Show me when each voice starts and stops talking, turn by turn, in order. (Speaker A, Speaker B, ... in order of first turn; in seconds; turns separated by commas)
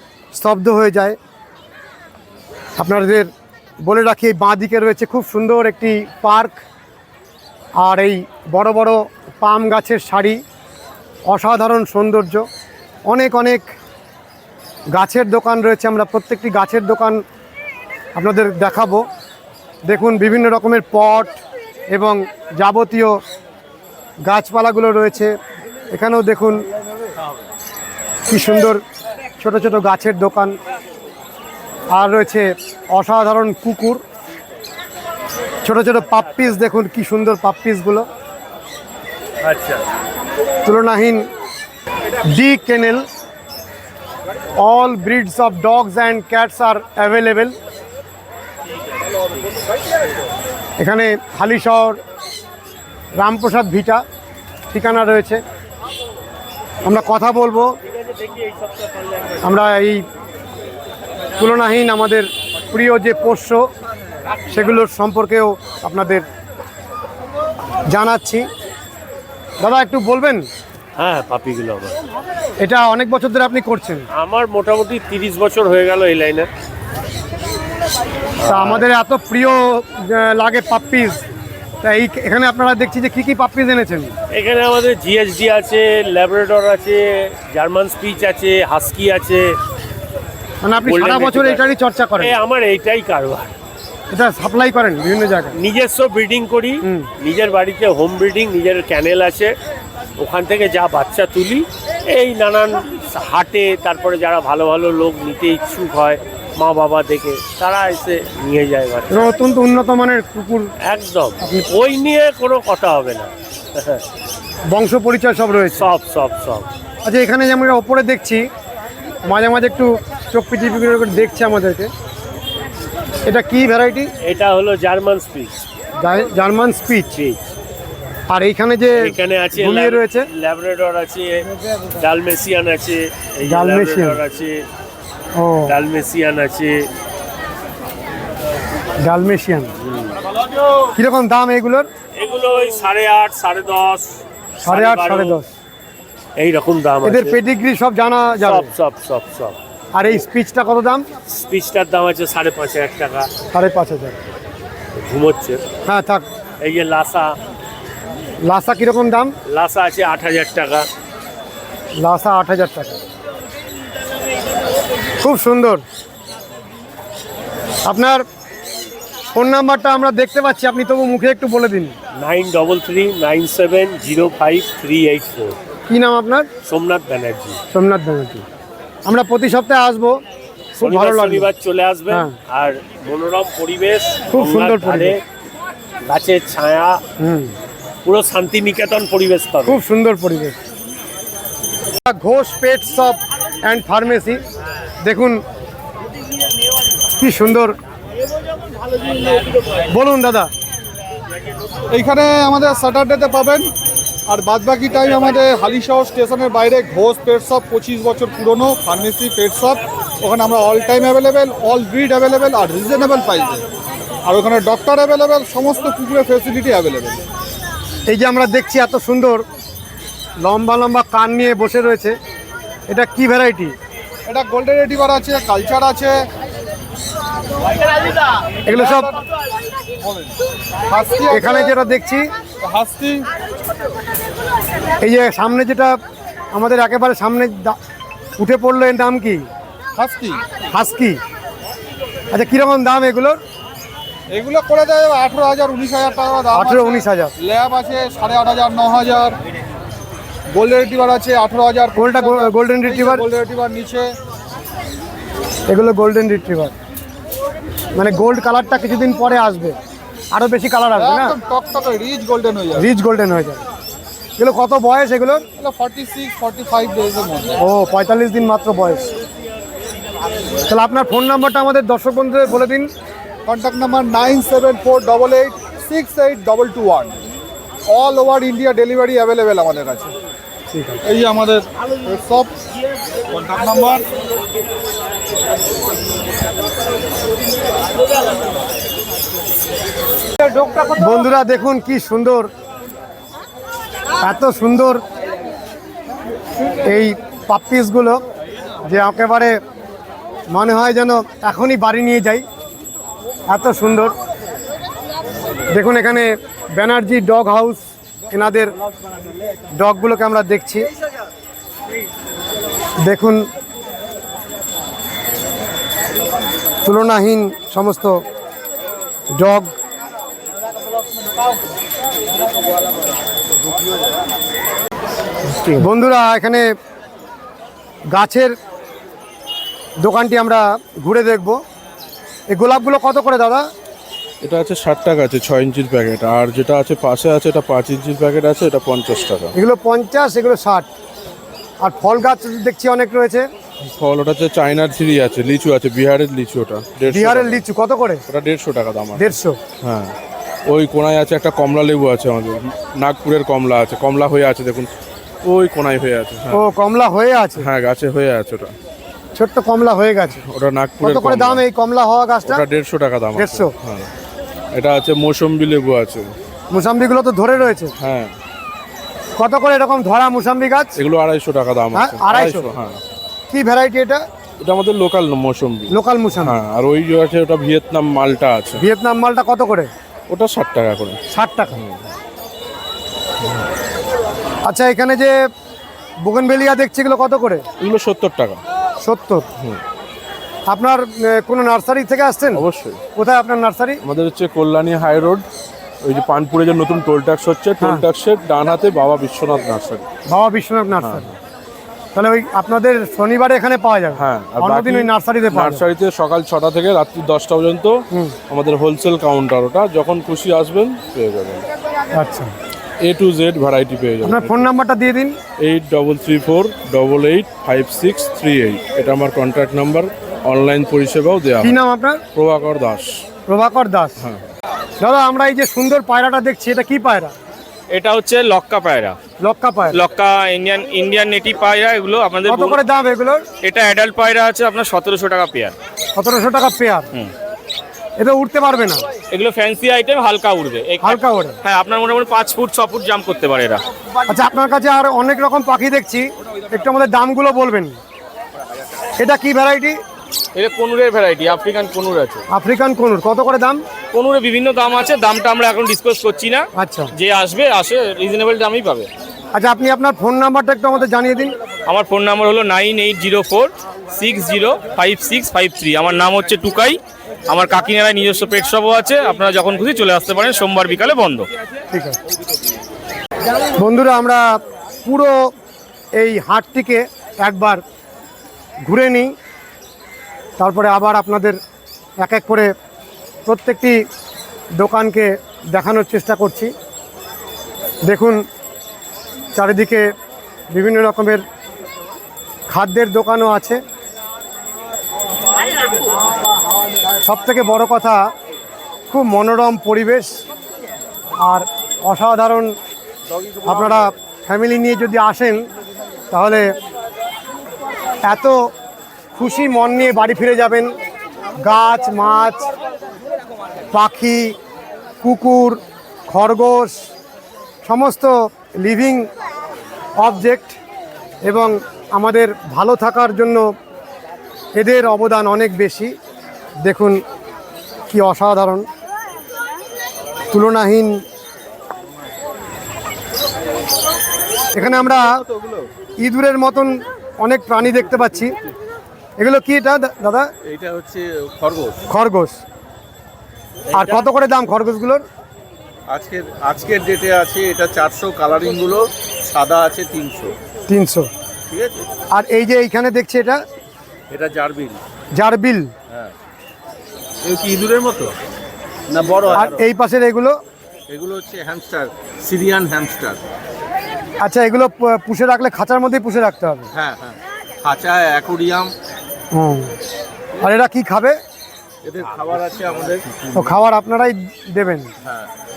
Speaker A: 0.3-1.2, Speaker A: 2.8-3.3, Speaker A: 3.8-6.6, Speaker A: 7.8-10.4, Speaker A: 11.3-12.4, Speaker A: 13.1-13.7, Speaker A: 14.9-17.2, Speaker A: 18.1-19.1, Speaker A: 19.9-21.4, Speaker A: 21.9-23.2, Speaker A: 24.2-25.4, Speaker A: 25.9-26.7, Speaker A: 28.3-28.8, Speaker A: 29.4-30.6, Speaker A: 31.9-34.0, Speaker A: 35.6-38.1, Speaker B: 39.4-39.8, Speaker A: 40.6-41.3, Speaker A: 42.2-43.1, Speaker A: 44.6-47.6, Speaker A: 50.8-52.0, Speaker A: 53.2-54.0, Speaker A: 54.7-55.4, Speaker A: 56.9-57.7, Speaker B: 57.9-59.4, Speaker A: 59.4-60.0, Speaker A: 61.4-63.6, Speaker A: 64.5-66.3, Speaker A: 67.9-68.5, Speaker A: 69.6-70.5, Speaker B: 71.0-72.0, Speaker A: 72.6-74.1, Speaker B: 74.1-76.5, Speaker B: 78.4-78.9, Speaker A: 78.4-81.2, Speaker A: 81.8-84.1, Speaker B: 84.3-89.6, Speaker A: 90.6-92.3, Speaker B: 90.9-91.6, Speaker B: 92.2-93.5, Speaker A: 94.1-95.6, Speaker B: 95.6-99.5, Speaker A: 96.8-97.1, Speaker B: 100.2-109.3, Speaker A: 109.1-110.7, Speaker B: 110.8-114.0, Speaker A: 114.7-115.9, Speaker B: 115.8-116.7, Speaker A: 117.0-118.5, Speaker A: 119.3-121.9, Speaker A: 123.3-124.1, Speaker B: 124.2-125.5, Speaker A: 126.0-127.1, Speaker B: 127.1-127.4, Speaker A: 128.3-130.3, Speaker B: 129.0-131.5, Speaker B: 132.0-134.7, Speaker A: 133.5-134.2, Speaker A: 135.4-135.7, Speaker B: 135.7-136.9, Speaker A: 139.0-139.7, Speaker A: 141.0-141.9, Speaker B: 142.2-145.4, Speaker A: 144.6-145.5, Speaker B: 146.4-147.4, Speaker A: 147.0-148.7, Speaker B: 148.4-149.6, Speaker A: 149.9-151.1, Speaker B: 151.3-153.3, Speaker A: 153.5-154.2, Speaker B: 154.9-155.6, Speaker A: 155.8-156.3, Speaker B: 156.6-157.3, Speaker A: 158.5-159.3, Speaker B: 159.5-160.9, Speaker A: 162.0-163.0, Speaker A: 165.2-165.8, Speaker A: 167.8-168.2, Speaker A: 169.3-171.9, Speaker B: 172.2-175.6, Speaker A: 175.9-176.5, Speaker B: 176.7-177.6, Speaker A: 177.7-178.4, Speaker A: 179.1-180.2, Speaker A: 180.7-181.5, Speaker B: 180.8-185.2, Speaker A: 184.3-185.2, Speaker B: 186.1-187.0, Speaker A: 187.2-187.6, Speaker B: 188.1-189.8, Speaker A: 189.6-190.6, Speaker A: 192.0-194.4, Speaker A: 195.0-195.4, Speaker A: 197.1-197.8, Speaker A: 199.9-200.5, Speaker C: 201.9-203.7, Speaker C: 204.3-213.7, Speaker C: 214.2-217.2, Speaker A: 218.1-219.4, Speaker A: 220.4-222.2, Speaker A: 222.9-223.8, Speaker C: 224.3-226.2, Speaker A: 228.7-229.1, Speaker C: 228.7-229.2, Speaker C: 230.0-230.4, Speaker C: 230.9-231.7, Speaker A: 231.3-232.2, Speaker C: 232.6-233.2, Speaker A: 235.0-236.0, Speaker A: 236.5-237.8, Speaker A: 238.4-239.5, Speaker C: 240.0-240.4, Speaker A: 240.7-241.2, Speaker A: 242.3-243.4, Speaker C: 244.3-249.3, Speaker A: 246.5-247.3, Speaker C: 250.5-254.1, Speaker A: 252.0-253.2, Speaker A: 255.7-256.8, Speaker A: 257.9-259.8, Speaker A: 260.3-261.4, Speaker C: 261.0-262.9, Speaker A: 262.8-263.6, Speaker A: 264.4-265.4, Speaker C: 265.6-267.6, Speaker A: 267.6-269.1, Speaker A: 270.7-272.9, Speaker C: 273.5-277.2, Speaker C: 277.9-280.1, Speaker A: 280.7-281.0, Speaker C: 281.0-282.5, Speaker C: 283.3-284.1, Speaker A: 291.0-292.5, Speaker A: 294.2-295.0, Speaker A: 296.8-298.2, Speaker A: 298.8-299.6, Speaker A: 300.5-302.4, Speaker A: 303.5-304.1, Speaker A: 305.7-308.8, Speaker A: 309.8-310.9, Speaker A: 313.0-313.5, Speaker A: 316.9-318.2, Speaker A: 319.3-319.8, Speaker A: 325.8-326.6, Speaker A: 328.1-328.5, Speaker A: 330.0-331.6, Speaker A: 332.5-333.6, Speaker D: 334.4-339.5, Speaker A: 339.5-340.9, Speaker A: 341.8-343.5, Speaker D: 343.8-347.6, Speaker A: 347.1-348.2, Speaker D: 348.3-350.1, Speaker A: 349.2-349.6, Speaker D: 350.7-354.9, Speaker D: 355.4-356.6, Speaker A: 356.5-357.7, Speaker D: 357.6-358.7, Speaker A: 359.4-360.4, Speaker D: 360.5-361.6, Speaker A: 361.0-362.6, Speaker D: 362.5-364.1, Speaker A: 363.4-363.7, Speaker D: 364.7-366.3, Speaker A: 366.7-367.9, Speaker D: 368.0-368.3, Speaker A: 369.4-370.9, Speaker D: 371.0-373.0, Speaker A: 371.9-372.7, Speaker A: 373.5-374.2, Speaker D: 374.6-378.8, Speaker A: 375.9-376.6, Speaker A: 378.8-379.9, Speaker D: 380.3-381.2, Speaker A: 381.3-381.8, Speaker D: 381.8-382.1, Speaker A: 384.7-385.4, Speaker A: 386.2-387.6, Speaker D: 387.8-388.6, Speaker A: 389.0-389.5, Speaker A: 390.7-392.6, Speaker D: 392.5-393.0, Speaker A: 393.2-394.0, Speaker D: 394.0-395.4, Speaker D: 396.0-400.1, Speaker A: 400.3-401.3, Speaker D: 401.0-401.4, Speaker A: 402.1-405.9, Speaker D: 404.2-408.0, Speaker D: 408.5-411.6, Speaker A: 412.1-412.5, Speaker D: 413.0-414.7, Speaker A: 414.2-415.4, Speaker D: 415.6-421.8, Speaker A: 421.6-422.2, Speaker D: 422.3-423.2, Speaker A: 423.5-424.2, Speaker A: 425.0-427.3, Speaker E: 427.9-429.2, Speaker A: 429.4-430.0, Speaker E: 429.9-432.8, Speaker A: 432.5-433.4, Speaker E: 433.6-435.8, Speaker A: 436.2-437.1, Speaker A: 438.2-439.0, Speaker E: 439.3-443.8, Speaker A: 441.0-441.6, Speaker A: 444.3-448.0, Speaker A: 449.2-450.0, Speaker E: 450.6-452.4, Speaker A: 452.5-453.8, Speaker E: 454.1-459.1, Speaker A: 456.8-457.1, Speaker A: 459.6-461.6, Speaker E: 461.9-471.5, Speaker A: 471.9-472.2, Speaker A: 473.8-474.4, Speaker A: 475.1-475.4, Speaker A: 476.2-477.8, Speaker A: 478.9-479.3, Speaker A: 480.6-481.6, Speaker A: 482.2-482.7, Speaker A: 483.5-484.0, Speaker A: 484.8-486.7, Speaker A: 488.1-488.4, Speaker A: 489.6-490.1, Speaker A: 490.7-491.4, Speaker A: 492.7-493.8, Speaker A: 497.2-498.2, Speaker A: 499.1-500.4, Speaker A: 501.4-502.7, Speaker F: 503.4-504.1, Speaker A: 503.6-505.7, Speaker A: 506.3-506.7, Speaker A: 508.2-508.6, Speaker A: 509.4-510.9, Speaker A: 511.6-512.7, Speaker A: 513.9-514.5, Speaker A: 515.2-517.1, Speaker A: 517.8-519.3, Speaker A: 520.2-520.8, Speaker A: 521.5-523.6, Speaker A: 524.8-526.1, Speaker A: 526.8-527.2, Speaker A: 528.1-528.9, Speaker A: 530.5-531.2, Speaker A: 534.7-535.4, Speaker F: 534.7-535.9, Speaker A: 536.2-538.5, Speaker A: 539.4-540.5, Speaker F: 540.6-542.0, Speaker A: 542.1-542.6, Speaker A: 543.9-545.2, Speaker F: 546.1-550.5, Speaker A: 550.9-551.3, Speaker F: 551.7-552.1, Speaker A: 552.3-553.6, Speaker F: 554.3-555.0, Speaker A: 555.3-555.9, Speaker F: 557.4-558.3, Speaker F: 559.1-559.9, Speaker A: 559.5-560.6, Speaker F: 561.1-563.4, Speaker A: 564.4-566.9, Speaker F: 566.9-568.9, Speaker A: 569.5-570.0, Speaker A: 570.6-571.4, Speaker F: 572.0-573.7, Speaker A: 573.5-575.1, Speaker F: 575.2-575.5